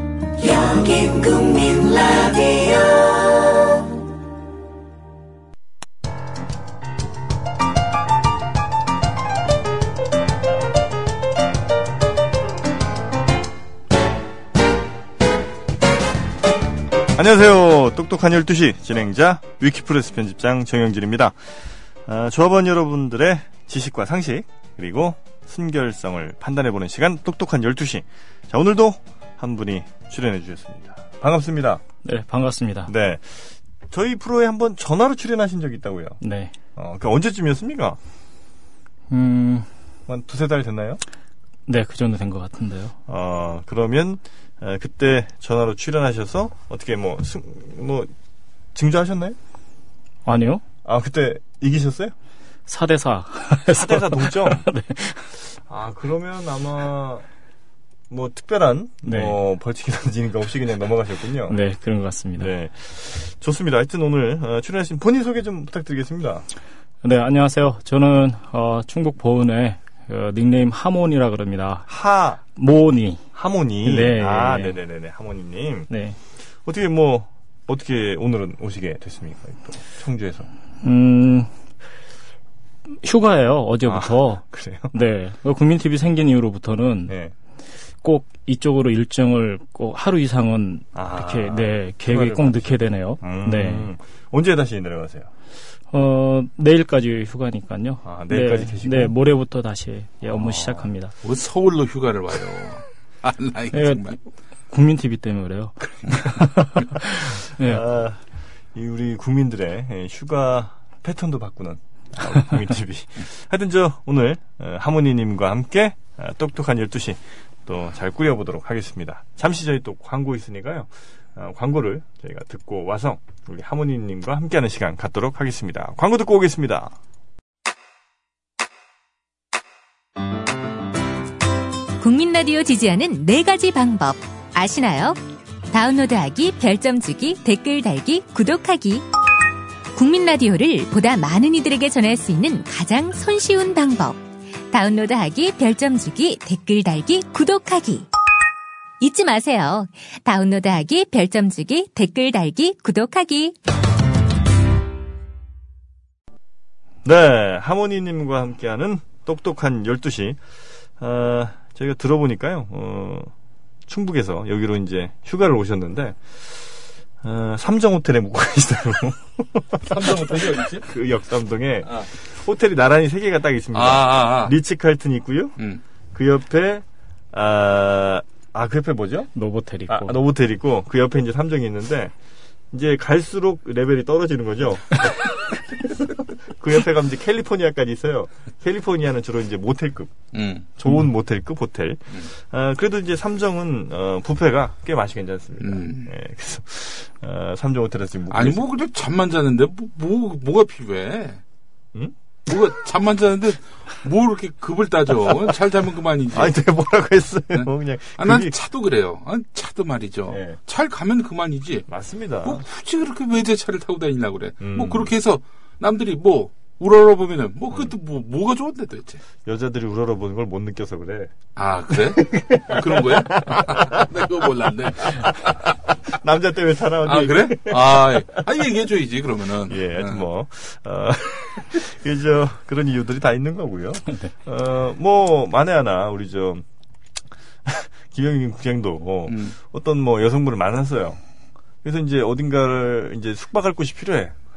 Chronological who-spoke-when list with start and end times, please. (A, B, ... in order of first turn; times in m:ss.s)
0:00.4-0:03.9 A
0:17.1-0:21.4 B
0:22.1-0:31.8 B
0:32.0-0:32.9 C
0:32.9-0:36.2 B
0:36.2-0:36.5 C
0:36.8-0:38.0 B
0:39.1-0:39.7 C
0:40.1-0:41.0 B
0:41.7-0:43.0 C
0:43.1-0:48.1 B
0:48.8-0:49.4 B
0:50.3-0:50.6 C
0:50.8-0:52.1 B
0:52.7-0:55.3 C
0:53.7-0:54.7 B
0:55.6-0:57.3 B
0:58.1-1:01.6 B
0:59.0-0:59.4 C
1:01.5-1:02.5 C
1:02.4-1:06.5 B
1:07.0-1:11.9 C
1:11.9-1:12.4 B
1:12.6-1:13.2 C
1:13.3-1:15.9 B
1:13.8-1:14.8 C
1:15.9-1:16.2 C
1:16.6-1:20.5 B
1:20.8-1:21.5 C
1:23.0-1:27.1 C
1:23.9-1:24.9 B
1:27.1-1:27.3 B
1:28.0-1:33.9 C
1:31.0-1:35.3 B
1:35.9-1:41.1 C
1:38.0-1:39.1 B
1:40.3-1:40.9 B
1:41.2-1:44.2 D
1:43.7-1:44.1 C
1:44.7-1:47.8 C
1:46.1-1:48.2 B
1:48.7-2:07.0 B
2:12.0-2:15.2 E
2:15.7-2:19.0 E
2:20.0-2:24.2 E
2:24.7-2:28.1 E
2:29.0-2:33.6 E
2:37.0-2:40.4 B
2:41.0-2:43.3 B
2:43.9-2:46.4 B
2:47.2-2:55.6 B
2:49.9-2:50.9 D
2:53.7-2:54.6 D
2:56.1-2:59.3 B
2:59.4-3:00.2 C
2:59.9-3:02.1 B
3:02.7-3:10.3 B
3:10.3-3:10.9 D
3:10.8-3:18.6 B
3:15.6-3:16.1 D
3:18.3-3:21.4 D
3:22.5-3:26.6 D
3:26.3-3:28.6 B
3:28.2-3:31.9 D
3:30.3-3:30.6 B
3:31.9-3:32.6 B
3:32.4-3:39.2 D
3:34.6-3:35.1 B
3:39.5-3:41.3 B
3:41.6-3:45.7 D
3:41.9-3:44.2 B
3:45.0-3:48.4 B
3:47.0-3:50.2 D
3:49.7-3:56.6 B
3:57.6-4:01.2 B
3:59.3-3:59.6 D
4:01.8-4:04.4 B